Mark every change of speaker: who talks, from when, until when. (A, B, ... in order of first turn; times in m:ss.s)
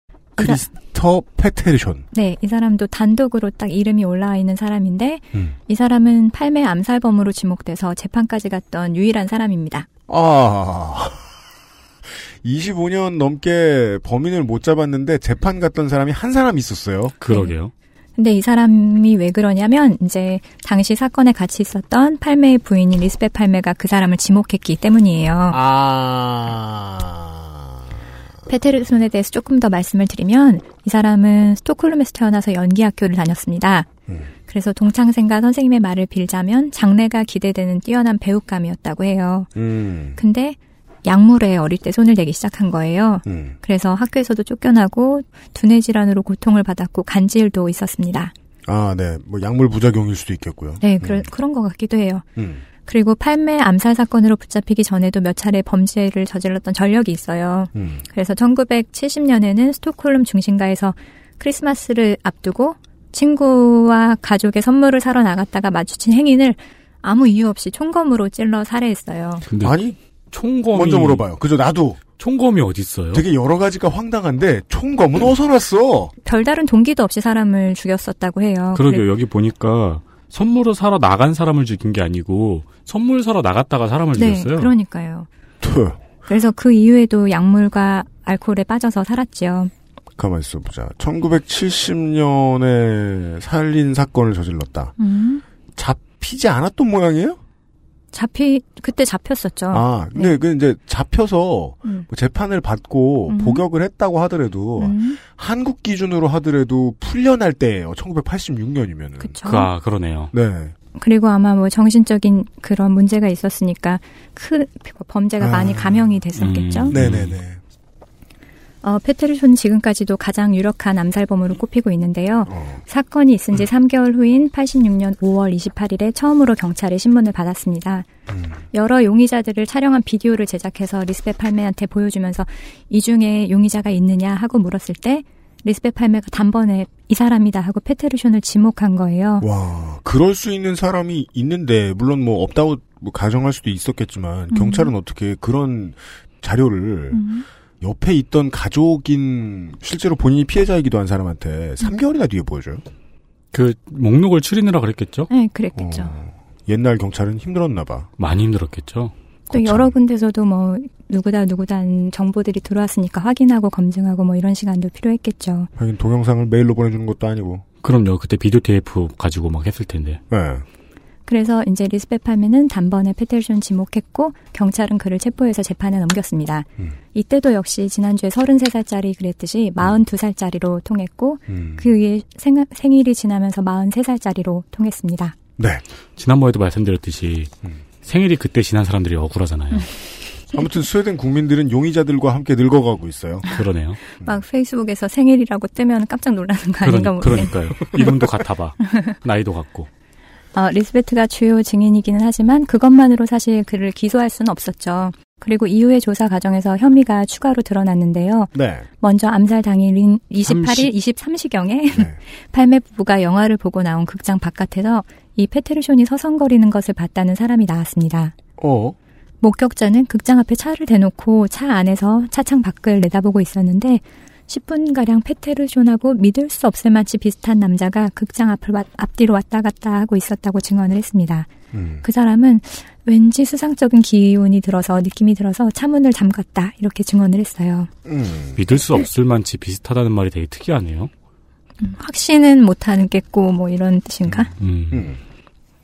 0:00.4-0:02.0 A
0:02.1-0:09.9 B
0:10.1-0:11.3 A
0:12.4-0:17.2 A
0:17.2-0:17.7 C
0:18.2-0:25.6 B
0:25.5-0:27.8 A
0:28.5-0:33.9 B
0:34.5-0:39.5 B
0:39.5-0:40.2 A
0:40.2-0:48.3 B
0:43.2-0:43.6 A
0:48.6-0:51.2 A
0:50.8-0:52.2 B
0:52.4-0:52.6 A
0:52.8-1:09.4 B
0:57.7-0:58.0 A
1:09.5-1:09.8 C
1:09.6-1:10.0 A
1:10.3-1:11.3 C
1:10.7-1:12.0 A
1:12.2-1:13.2 C
1:13.1-1:16.1 A
1:16.2-1:19.0 B
1:18.7-1:24.7 C
1:24.1-1:25.3 B
1:25.6-1:26.0 A
1:26.3-1:29.7 B
1:30.2-1:34.9 A
1:35.0-1:35.4 B
1:35.8-1:37.4 A
1:38.1-1:40.4 B
1:39.7-1:49.4 A
1:43.3-1:43.6 B
1:44.8-1:45.2 B
1:49.2-1:49.7 B
1:49.4-1:50.3 C
1:50.3-1:50.7 A
1:51.0-1:56.9 B
1:55.4-1:56.2 A
1:56.4-1:57.4 C
1:56.9-1:57.6 A
1:58.8-2:08.1 B
2:02.5-2:02.8 A
2:08.3-2:08.6 A
2:08.7-2:19.4 B
2:19.4-2:27.2 A
2:24.5-2:24.9 B
2:27.1-2:27.4 B
2:27.8-2:32.8 A
2:33.5-2:35.3 C
2:35.3-2:36.2 B
2:35.8-2:38.1 A
2:38.2-2:39.1 C
2:39.5-2:45.7 B
2:39.5-2:39.9 A
2:45.8-2:47.6 A
2:47.8-2:50.2 C
2:50.3-2:50.6 A
2:51.3-3:05.3 B
3:01.5-3:01.9 A
3:05.6-3:05.8 A
3:06.2-3:07.5 C
3:08.0-3:09.9 C
3:10.5-3:13.4 A
3:13.5-3:14.0 C
3:14.1-3:18.0 B
3:16.8-3:19.9 C
3:20.5-3:38.3 B
3:28.5-3:28.9 A
3:30.4-3:30.9 C
3:31.9-3:32.2 A
3:38.6-3:39.0 A
3:39.4-3:51.5 B
3:51.7-3:52.0 A
3:52.0-3:57.9 B
3:58.0-3:58.6 A
3:58.5-4:01.1 C
4:01.8-4:04.5 B
4:04.5-4:05.1 C
4:04.9-4:05.2 A